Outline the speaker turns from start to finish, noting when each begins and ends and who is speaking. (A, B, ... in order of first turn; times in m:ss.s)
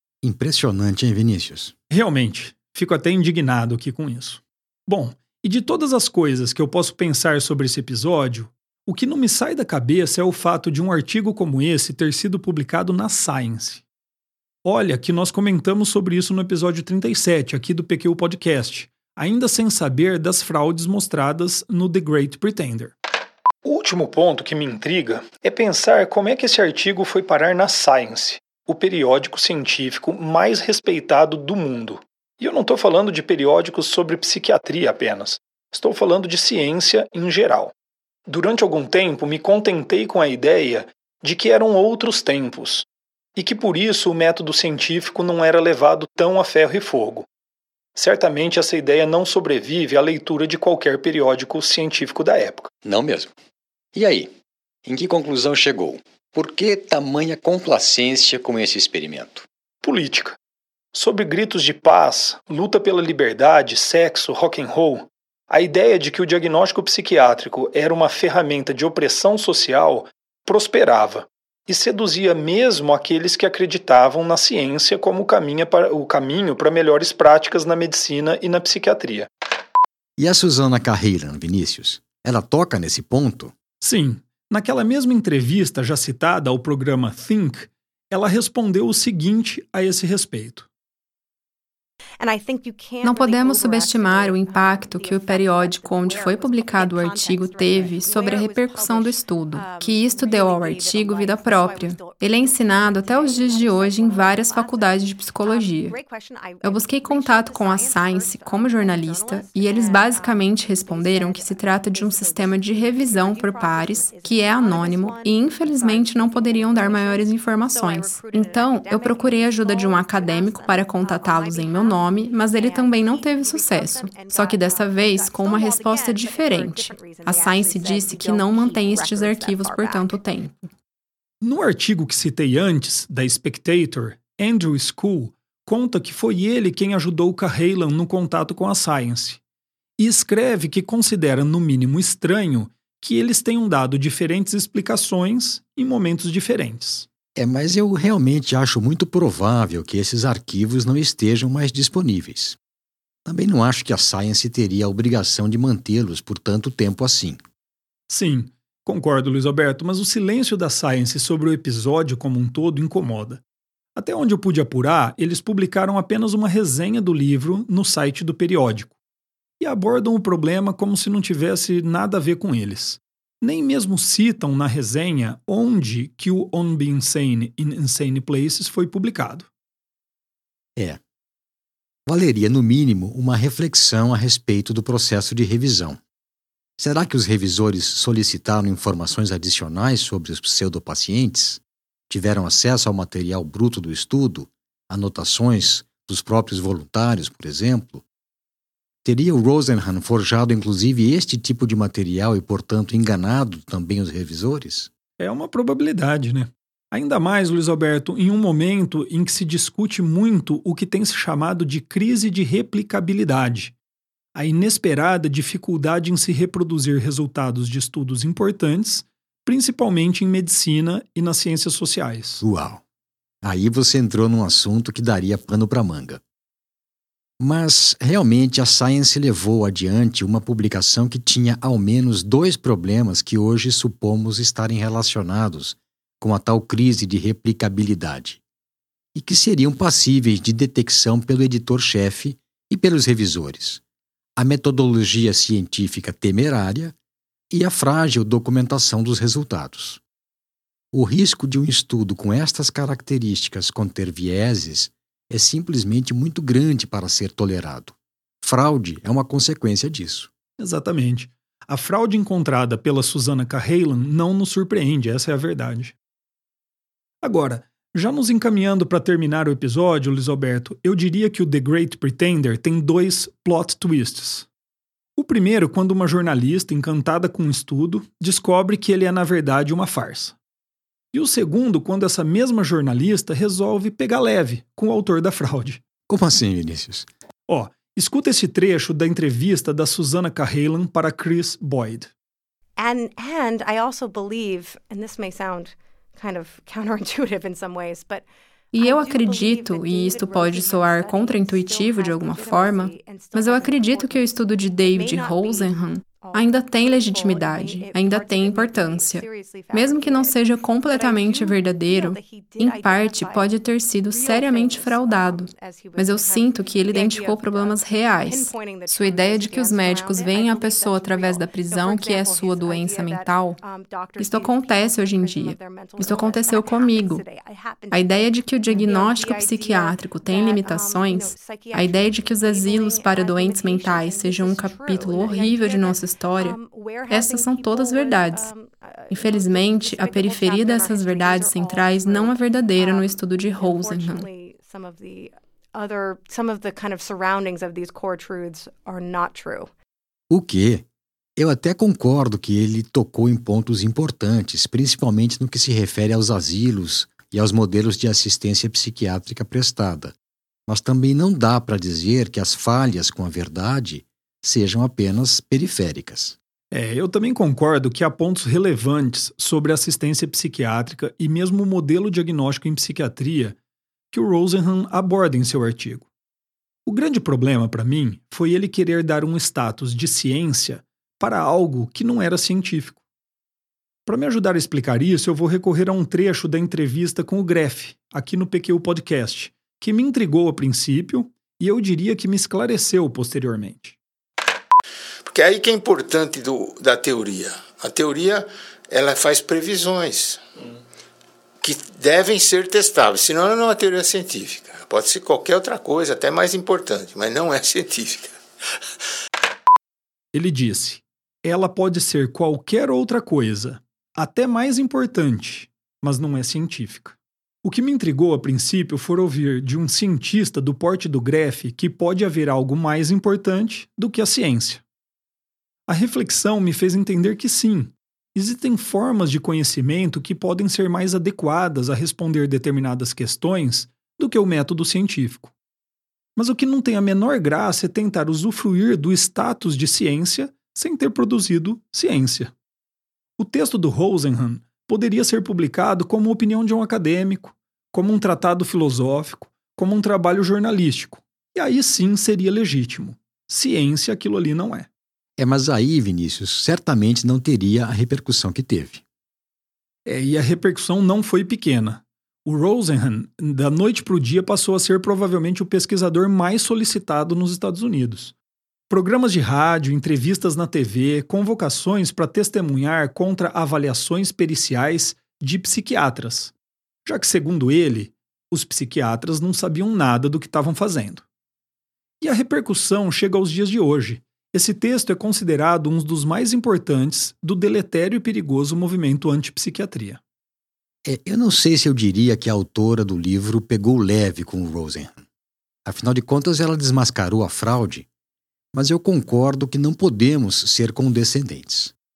0:00.2-0:01.7 A
0:01.9-0:13.8 B
0:14.6-0:23.0 B
0:23.6-0:37.7 B
0:38.3-0:47.3 B
0:48.0-0:52.7 B
0:52.8-0:53.3 A
0:53.9-0:54.3 A
0:54.8-0:59.5 A
0:59.8-1:00.4 B
1:00.9-1:19.3 B
1:20.2-1:23.5 A
1:23.8-1:30.7 B
1:32.2-2:10.2 C
1:33.0-1:46.0 D
1:46.6-2:10.7 D
2:11.4-2:19.4 B
2:20.0-2:27.1 B
2:27.4-2:32.6 A
2:33.2-2:37.4 A
2:38.1-2:43.4 B
2:44.0-2:48.9 B
2:49.6-2:59.5 B
3:02.1-3:06.0 A
3:06.8-3:18.0 A
3:19.0-3:24.9 A
3:25.2-3:33.8 B
3:34.4-3:42.4 B
3:42.4-3:42.8 A
3:43.4-3:46.2 A
3:47.4-3:58.4 A
3:59.2-4:03.8 A
4:04.4-4:07.0 A
4:07.5-4:10.0 A
4:10.9-4:20.3 A
4:20.6-4:26.0 B
4:27.2-4:34.5 B
4:35.2-4:40.4 B
4:41.1-4:45.8 B
4:46.1-4:47.1 A
4:47.5-4:52.1 B
4:52.8-5:13.5 C
4:58.7-5:23.6 D
5:14.1-5:49.7 C
5:24.2-5:27.2 D
5:27.9-5:36.6 D
5:37.1-5:38.5 D
5:39.1-5:44.3 D
5:50.3-5:50.8 A
5:51.4-6:00.2 A
6:00.7-6:06.4 A
6:06.7-6:13.6 B
6:14.1-6:16.1 B
6:16.9-6:23.0 B
6:24.1-6:34.0 B
6:35.3-6:40.4 E
6:41.6-6:48.4 E
6:50.3-7:04.8 B
7:05.9-7:15.5 B
7:16.4-7:22.5 B
7:23.4-7:34.9 B
7:35.4-7:39.0 A
7:40.0-7:48.4 B
7:48.9-7:56.5 B
7:57.0-8:01.3 B
8:02.2-8:10.2 B
8:11.0-8:15.2 A
8:15.8-8:18.1 A
8:18.7-8:21.9 A